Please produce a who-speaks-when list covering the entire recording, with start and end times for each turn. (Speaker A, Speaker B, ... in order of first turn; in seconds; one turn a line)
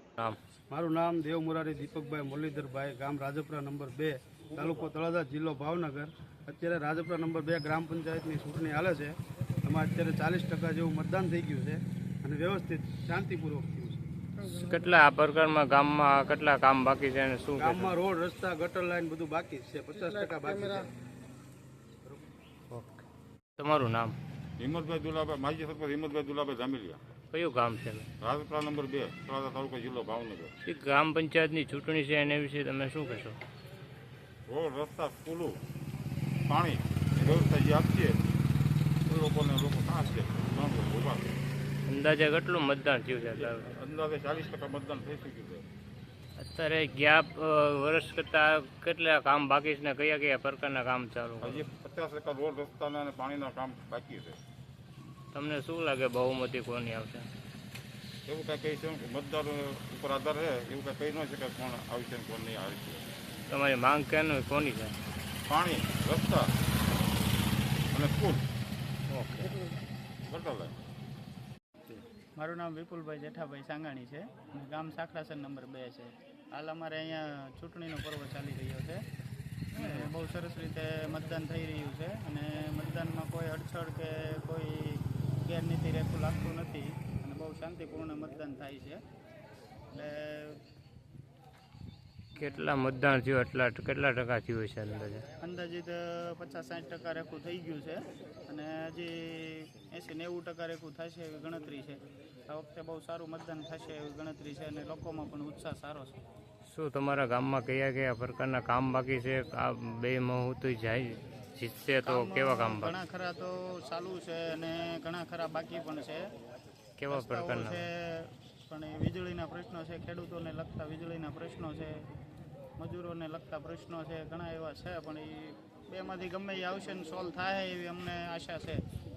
Speaker A: 0.7-14.1
Speaker B: 4.5-4.9
Speaker C: 14.4-17.9
Speaker A: 17.6-20.9
Speaker C: 22.7-23.0
Speaker C: 23.6-24.2
Speaker B: 24.6-27.0
Speaker C: 27.3-28.1
Speaker B: 28.2-30.5
Speaker C: 30.7-33.4
Speaker B: 34.5-35.6
Speaker B: 36.5-38.2
Speaker B: 39.1-41.4
Speaker C: 41.9-43.7
Speaker B: 43.2-45.7
Speaker C: 46.4-51.6
Speaker B: 51.4-54.4
Speaker C: 55.3-57.3
Speaker B: 58.3-63.1
Speaker C: 63.5-65.0
Speaker B: 65.5-66.5
Speaker B: 67.9-68.5
Speaker C: 69.1-69.6
Speaker B: 70.3-70.8
Speaker D: 72.4-79.0
Speaker D: 79.7-89.0
Speaker D: 89.9-90.6
Speaker C: 92.4-95.2
Speaker D: 95.4-106.2
Speaker C: 106.7-113.0
Speaker D: 112.1-116.3
Speaker C: 117.0-117.9
Speaker D: 117.1-122.1
Speaker D: 122.8-128.8